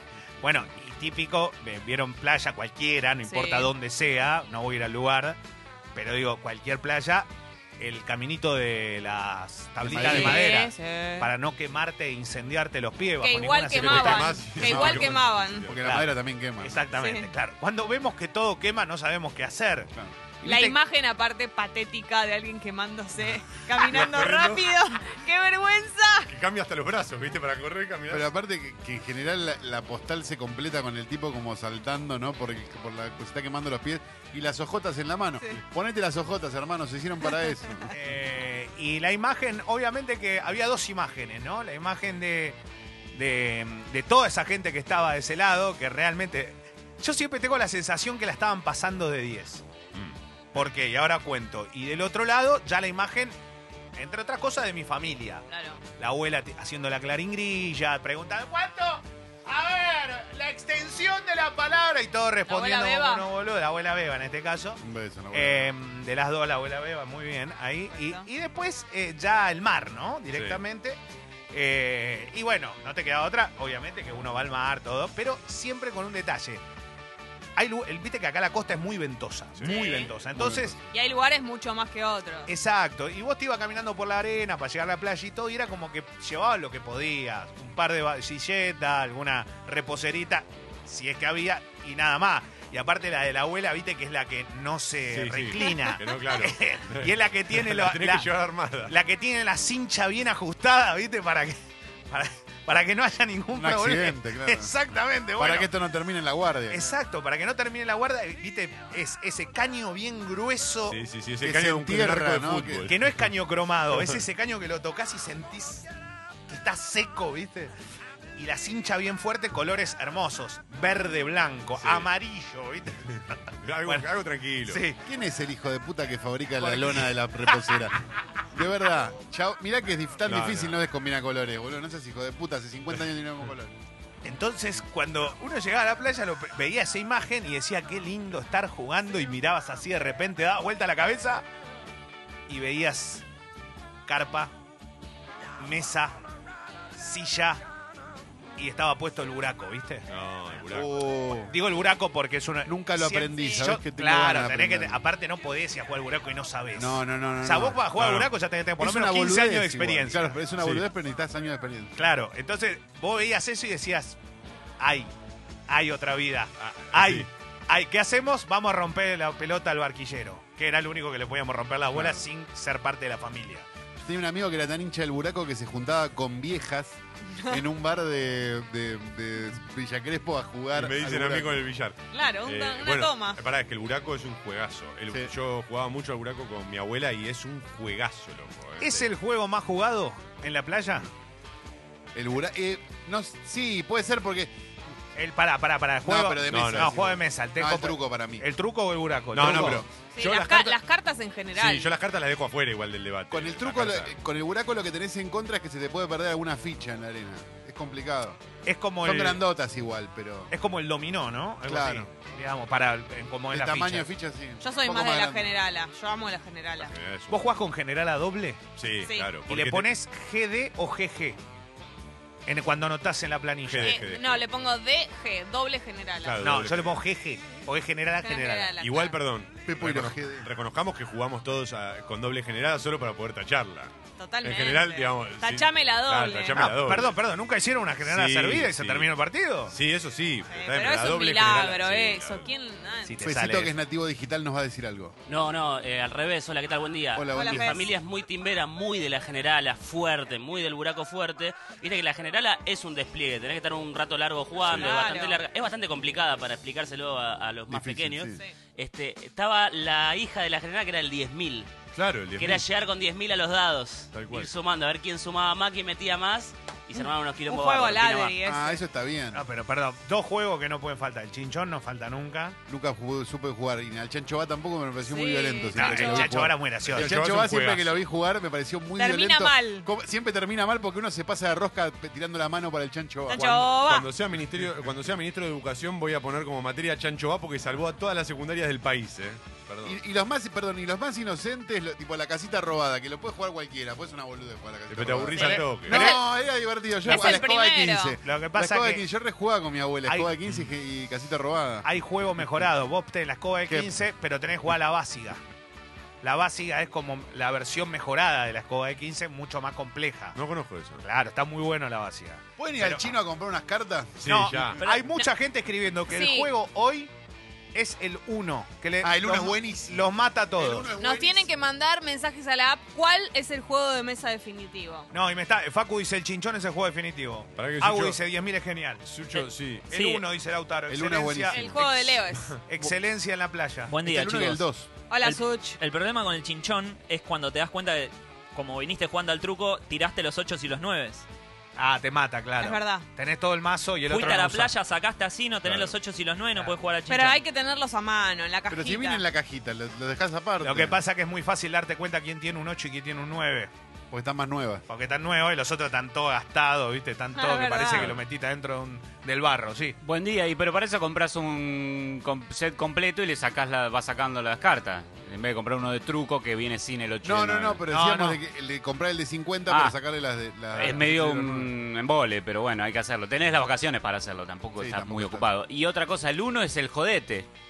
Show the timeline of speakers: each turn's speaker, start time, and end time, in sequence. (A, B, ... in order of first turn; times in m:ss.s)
0:00.4-0:05.4 A
0:03.2-0:03.7 B
0:06.0-0:15.1 A
0:09.9-0:10.4 C
0:09.9-0:11.3 B
0:13.2-0:15.6 B
0:13.7-0:15.8 D
0:14.7-0:15.1 C
0:15.6-0:16.8 C
0:15.8-0:20.8 A
0:16.9-0:17.3 B
0:20.4-0:26.3 B
0:23.8-0:24.7 D
0:26.3-0:28.3 D
0:28.1-0:37.9 C
0:37.9-0:42.6 A
0:43.1-0:49.6 A
0:50.5-0:53.4 A
0:54.0-0:55.5 A
0:55.5-0:55.8 B
0:56.0-1:04.8 A
1:02.5-1:03.2 B
1:04.8-1:05.7 C
1:05.3-1:11.0 A
1:07.9-1:08.3 B
1:10.3-1:10.6 D
1:11.5-1:16.6 A
1:17.6-1:20.8 A
1:19.6-1:20.1 D
1:19.7-1:20.1 B
1:20.3-1:20.8 C
1:20.9-1:22.5 B
1:22.5-1:38.3 A
1:35.1-1:38.9 D
1:38.8-1:41.6 A
1:42.1-1:45.7 A
1:43.5-1:44.7 C
1:45.4-1:46.9 C
1:46.7-1:51.0 A
1:50.9-1:53.2 D
1:51.4-1:52.9 C
1:52.9-1:55.9 A
1:53.9-1:54.2 D
1:56.5-1:57.7 A
1:58.4-2:04.1 A
2:01.8-2:02.1 D
2:03.6-2:04.8 D
2:04.6-2:05.0 A
2:05.0-2:08.0 C
2:06.6-2:07.7 A
2:08.5-2:13.8 C
2:10.3-2:10.8 D
2:14.2-2:21.4 A
2:22.5-2:23.2 A
2:24.1-2:24.5 A
2:25.6-2:26.2 A
2:27.0-2:27.6 A
2:28.6-2:30.0 A
2:30.1-2:30.9 D
2:30.7-2:31.5 C
2:31.5-2:40.4 A
2:32.7-2:35.0 C
2:36.8-2:37.8 C
2:38.0-2:38.3 D
2:38.8-2:42.0 C
2:42.0-2:44.2 A
2:44.8-2:45.1 A
2:45.7-2:53.7 A
2:46.7-2:47.3 D
2:54.0-3:01.7 C
3:00.8-3:09.1 D
3:02.1-3:03.4 B
3:08.8-3:11.1 A
3:12.1-3:14.5 C
3:15.2-3:19.8 A
3:16.0-3:18.5 C
3:16.5-3:17.2 D
3:19.3-3:20.8 D
3:19.4-3:19.9 C
3:20.2-3:21.9 B
3:21.5-3:24.1 D
3:23.3-3:28.4 C
3:28.6-3:29.4 A
3:29.0-3:30.5 C
3:30.5-3:34.1 A
3:31.6-3:32.1 C
3:33.5-3:35.6 C
3:34.6-3:36.9 B
3:36.8-3:37.5 D
3:37.3-3:38.6 A
3:38.8-3:39.9 D
3:39.0-3:39.3 B
3:39.5-3:41.4 A
3:42.5-3:44.0 A
3:43.7-3:44.4 D
3:43.8-3:46.6 B
3:46.2-3:47.0 D
3:46.4-3:48.8 A
3:48.2-3:49.2 B
3:48.8-3:57.2 D
3:49.6-3:50.5 C
3:54.2-3:56.7 B
3:56.5-3:59.7 A
3:58.0-3:59.1 D
3:59.7-4:02.5 D
4:00.5-4:03.2 B
4:03.0-4:03.7 A
4:03.2-4:05.2 C
4:05.3-4:21.7 E
4:07.1-4:07.9 C
4:07.3-4:07.9 B
4:14.6-4:14.9 D
4:14.6-4:15.4 B
4:17.7-4:18.4 C
4:21.9-4:22.6 D
4:22.4-4:28.4 E
4:24.1-4:24.5 D
4:27.5-4:28.8 B
4:28.4-4:29.4 C
4:29.3-4:32.6 A
4:32.7-4:43.7 C
4:35.0-4:36.3 B
4:35.7-4:37.1 A
4:36.9-4:38.0 D
4:39.0-4:39.9 B
4:43.3-4:44.1 B
4:43.7-4:50.0 D
4:49.8-5:01.9 C
4:54.9-4:56.1 D
4:55.4-4:56.2 A
4:55.4-4:56.2 B
4:57.0-4:58.2 B
4:57.1-4:57.4 A
4:58.2-4:59.0 A
5:00.1-5:00.3 A
5:01.8-5:05.4 A
5:03.7-5:04.0 C
5:06.2-5:10.4 A
5:10.3-5:11.0 D
5:11.0-5:13.1 A
5:12.6-5:14.2 C
5:14.2-5:14.8 D
5:14.2-5:17.1 A
5:14.9-5:15.2 B
5:16.1-5:16.5 B
5:17.7-5:20.9 A
5:19.0-5:21.5 C
5:21.0-5:25.1 B
5:25.1-5:33.9 A
5:27.6-5:28.2 D
5:29.1-5:29.9 D
5:29.9-5:30.2 F
5:30.9-5:31.8 C
5:31.5-5:32.6 B
5:33.9-5:34.7 F
5:34.0-5:34.9 C
5:35.1-5:35.8 B
5:35.2-5:41.3 F
5:41.8-5:44.7 A
5:42.6-5:43.1 B
5:44.1-5:47.4 F
5:45.6-5:46.0 D
5:47.1-5:49.2 B
5:48.7-5:51.0 C
5:50.6-5:53.7 A
5:54.1-5:54.8 C
5:54.9-6:00.0 A
5:57.4-5:58.1 B
6:00.0-6:07.9 G
6:07.2-6:11.7 C
6:07.9-6:08.4 A
6:09.7-6:10.0 G
6:10.7-6:17.5 G
6:10.8-6:11.0 A
6:14.8-6:15.5 C